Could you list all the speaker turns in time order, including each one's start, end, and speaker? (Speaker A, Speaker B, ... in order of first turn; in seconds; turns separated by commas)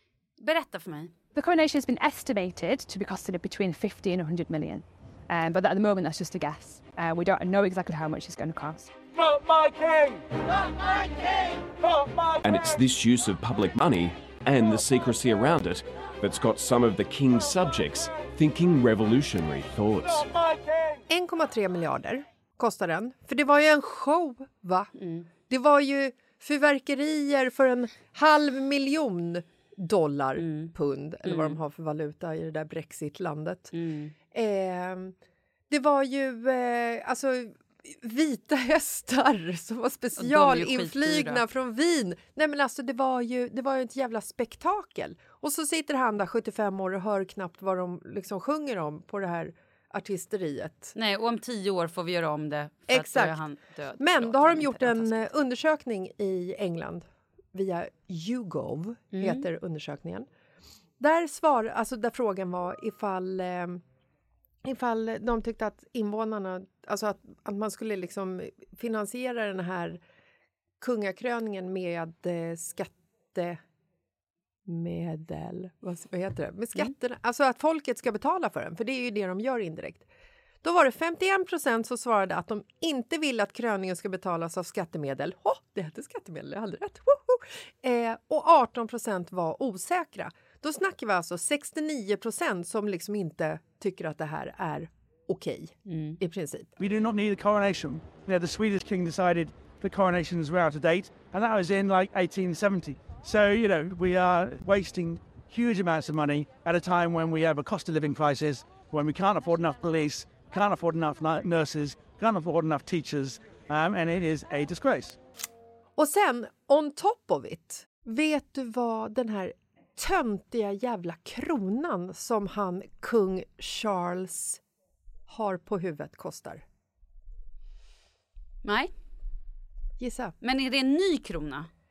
Speaker A: 0.4-1.1, Speaker B: 1.3-8.9, Speaker C: 12.4-20.3, Speaker D: 21.1-24.9, Speaker A: 25.0-25.3, Speaker D: 25.5-33.7, Speaker A: 30.4-30.7, Speaker A: 31.2-31.6, Speaker A: 33.7-34.1, Speaker D: 34.3-35.1, Speaker D: 35.7-50.9, Speaker A: 40.2-41.4, Speaker A: 50.9-55.3, Speaker D: 52.9-53.4, Speaker D: 54.0-60.3, Speaker A: 59.1-59.5, Speaker D: 61.0-63.8, Speaker D: 64.6-70.0, Speaker D: 70.8-73.6, Speaker D: 74.7-80.0, Speaker D: 80.6-96.7, Speaker A: 95.9-96.2, Speaker E: 96.8-115.2, Speaker D: 116.0-124.6, Speaker D: 125.3-126.6, Speaker A: 128.6-128.9, Speaker D: 130.0-130.3, Speaker A: 130.4-131.7